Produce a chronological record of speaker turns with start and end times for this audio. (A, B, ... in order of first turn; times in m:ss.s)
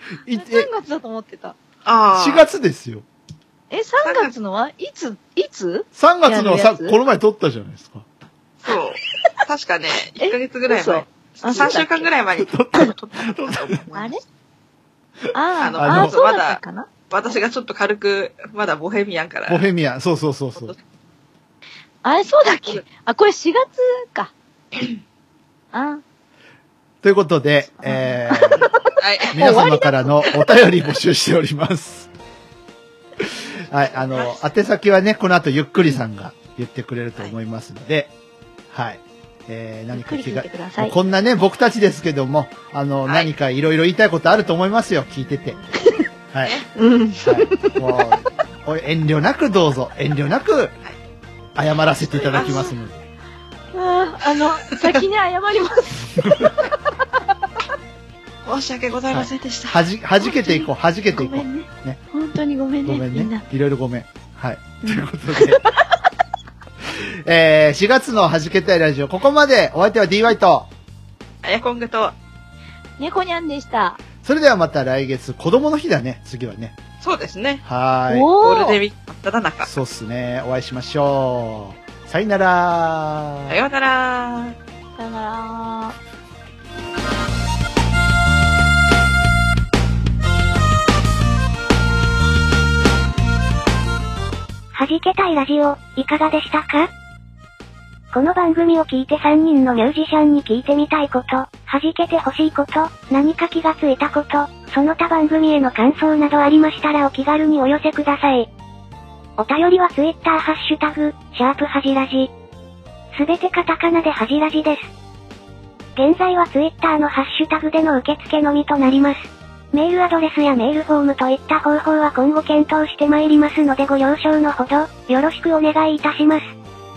0:00.3-0:00.7 A
0:00.3-0:01.6 B
0:01.8-0:02.4 C
0:02.1-0:03.0 A
0:03.7-0:07.0 B
0:04.0-0:04.3 C
0:06.0-0:08.1 A
0:08.6-0:14.2 C
0:10.2-0:12.1 B
0:12.4-0:13.8 A
0:13.9-0:14.2 B
0:15.3-0:16.9 B
0:15.6-0:19.7 C
0:15.8-0:16.2 A
0:19.5-0:20.8 A
0:22.0-0:24.3 B
0:25.7-0:26.0 B
0:27.0-0:28.6 A
0:27.8-0:30.1 B
0:28.6-0:29.5 C
0:29.3-0:32.1 A
0:33.2-0:38.1 A
0:38.7-0:45.6 A
0:39.9-0:41.0 B
0:46.3-0:46.6 A
0:46.8-0:47.8 B
0:47.2-0:50.7 A
0:51.6-0:53.0 A
0:52.1-0:52.7 C
0:53.7-0:56.9 B
0:54.7-0:55.0 C
0:56.2-0:56.6 A
0:58.4-0:59.8 C
0:59.1-1:02.0 A
1:00.2-1:03.4 B
1:02.8-1:05.6 A
1:04.9-1:05.8 B
1:06.8-1:10.7 A
1:11.4-1:12.2 C
1:13.0-1:14.0 B
1:14.2-1:16.8 A
1:17.0-1:17.6 C
1:17.6-1:18.3 A
1:18.1-1:18.8 B
1:18.4-1:19.7 C
1:19.6-1:23.6 A
1:23.5-1:24.6 C
1:25.0-1:26.0 B
1:34.7-1:36.9 D
1:38.1-1:48.5 D
1:49.4-1:52.3 D
1:53.2-1:54.9 D
1:56.0-2:06.5 D